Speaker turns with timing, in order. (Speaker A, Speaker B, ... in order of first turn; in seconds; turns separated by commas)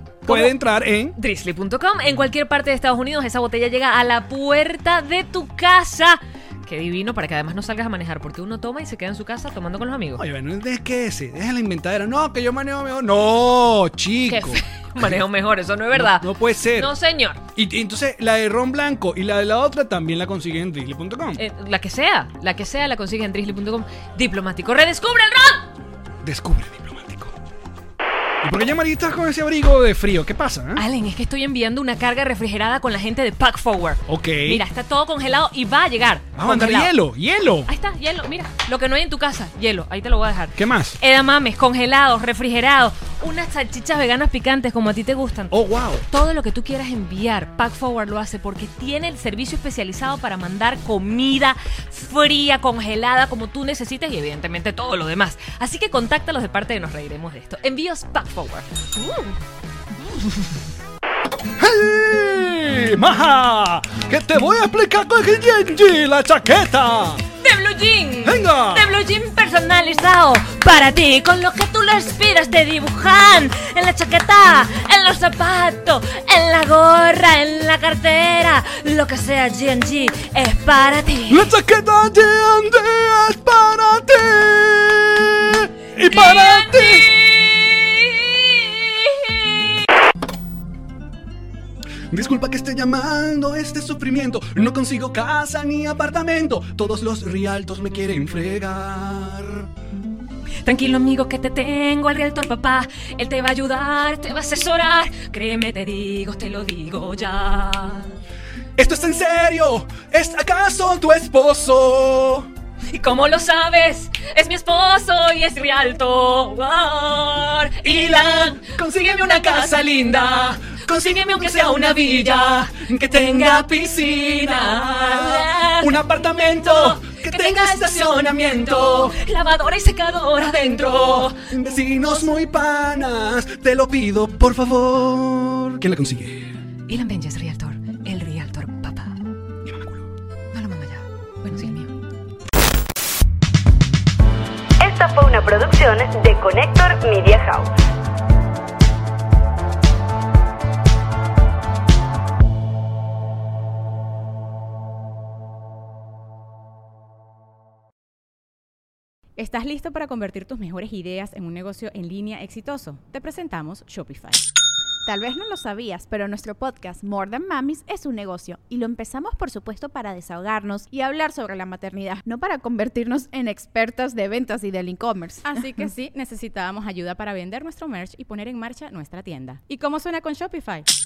Speaker A: 0.2-1.1, Speaker B: 0.2-0.5, Speaker B: 1.2-10.2, Speaker A: 10.2-15.2, Speaker B: 14.3-17.4, Speaker A: 15.9-16.9, Speaker A: 17.5-21.4, Speaker B: 21.4-25.7, Speaker A: 26.2-27.3, Speaker A: 28.4-30.8, Speaker B: 30.8-36.9, Speaker A: 34.1-34.6, Speaker A: 36.3-37.7, Speaker B: 37.7-45.5, Speaker A: 40.6-41.0, Speaker A: 45.5-46.0, Speaker B: 46.1-59.4, Speaker B: 60.1-60.5, Speaker A: 61.6-67.2, Speaker B: 67.4-81.5, Speaker A: 68.2-69.0, Speaker A: 81.3-87.1, Speaker B: 86.1-89.8, Speaker A: 92.1-99.7, Speaker B: 100.6-108.2, Speaker A: 108.8-112.5, Speaker B: 112.9-126.0, Speaker A: 117.8-129.2, Speaker B: 126.7-131.4, Speaker A: 131.2-136.6, Speaker B: 136.9-139.2, Speaker A: 139.6-140.1, Speaker B: 140.5-141.9, Speaker C: 144.8-147.7, Speaker D: 159.4-164.4, Speaker E: 165.1-175.5, Speaker D: 175.4-180.8